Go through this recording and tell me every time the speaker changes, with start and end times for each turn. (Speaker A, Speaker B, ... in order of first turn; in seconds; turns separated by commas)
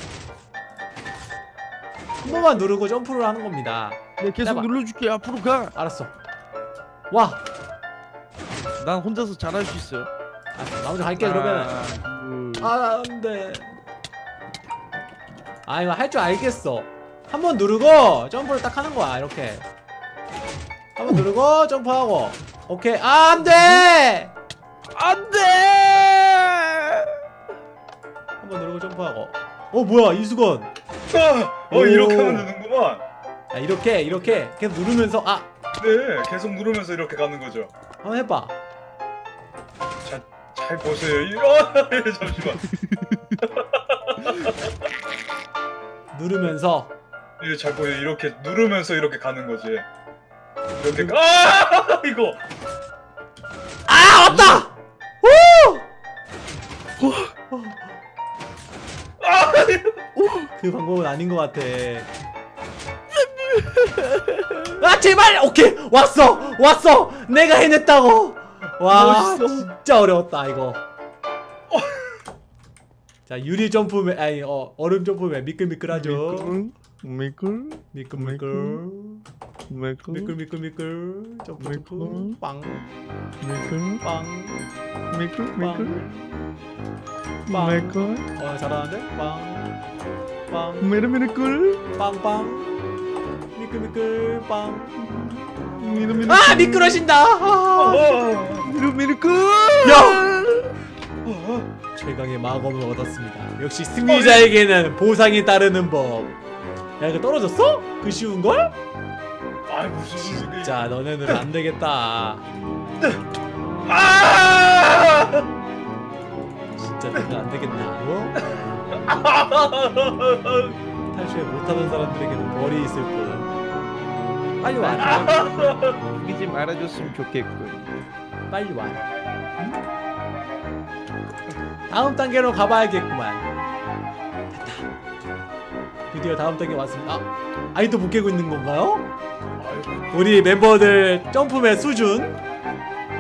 Speaker A: 2.2-4.7, Speaker B: 4.2-5.7, Speaker A: 5.8-6.1, Speaker A: 7.1-7.4, Speaker B: 8.8-10.1, Speaker A: 10.5-11.8, Speaker B: 11.2-12.7, Speaker A: 12.6-13.8, Speaker A: 15.7-19.7, Speaker A: 21.0-24.3, Speaker B: 23.5-23.9, Speaker B: 24.9-27.2, Speaker A: 28.4-30.7, Speaker C: 31.1-33.0, Speaker A: 31.7-32.5, Speaker A: 33.5-35.5, Speaker C: 35.8-37.7, Speaker A: 38.0-38.6, Speaker C: 40.0-42.6, Speaker B: 42.6-43.4, Speaker C: 43.4-44.7, Speaker A: 46.1-47.0, Speaker C: 47.4-49.9, Speaker C: 50.8-52.4, Speaker A: 50.9-51.2, Speaker A: 53.9-55.9, Speaker B: 54.3-54.6, Speaker B: 57.0-57.3, Speaker A: 57.5-57.8, Speaker C: 59.2-60.0, Speaker B: 60.2-60.5, Speaker A: 60.6-62.1, Speaker B: 63.1-64.8, Speaker A: 64.8-70.8, Speaker B: 68.9-69.7, Speaker C: 71.7-72.2, Speaker A: 73.3-76.6, Speaker B: 75.9-78.8, Speaker A: 77.9-79.2, Speaker B: 79.7-80.4, Speaker A: 80.1-82.9, Speaker B: 81.6-82.4, Speaker B: 83.4-84.0, Speaker A: 84.0-84.7, Speaker B: 85.1-86.0, Speaker A: 85.6-86.5, Speaker B: 87.5-88.3, Speaker A: 87.5-89.8, Speaker A: 90.5-90.9, Speaker B: 90.8-91.9, Speaker A: 92.0-95.4, Speaker B: 95.8-97.0, Speaker C: 95.9-96.5, Speaker A: 96.3-98.2, Speaker C: 97.8-98.7, Speaker B: 98.7-100.8, Speaker A: 99.8-100.2, Speaker C: 101.2-101.7, Speaker A: 102.0-106.3, Speaker C: 104.1-104.5, Speaker A: 107.0-108.8, Speaker C: 109.7-110.9, Speaker A: 110.2-112.5, Speaker C: 113.9-115.5, Speaker A: 116.8-118.4, Speaker C: 118.5-120.8, Speaker A: 121.1-123.5, Speaker A: 124.6-125.5, Speaker B: 124.8-128.0, Speaker C: 125.0-126.0, Speaker A: 128.5-129.8, Speaker A: 131.9-133.5, Speaker A: 134.5-134.9, Speaker A: 136.1-139.1, Speaker C: 139.6-140.1, Speaker A: 140.1-142.4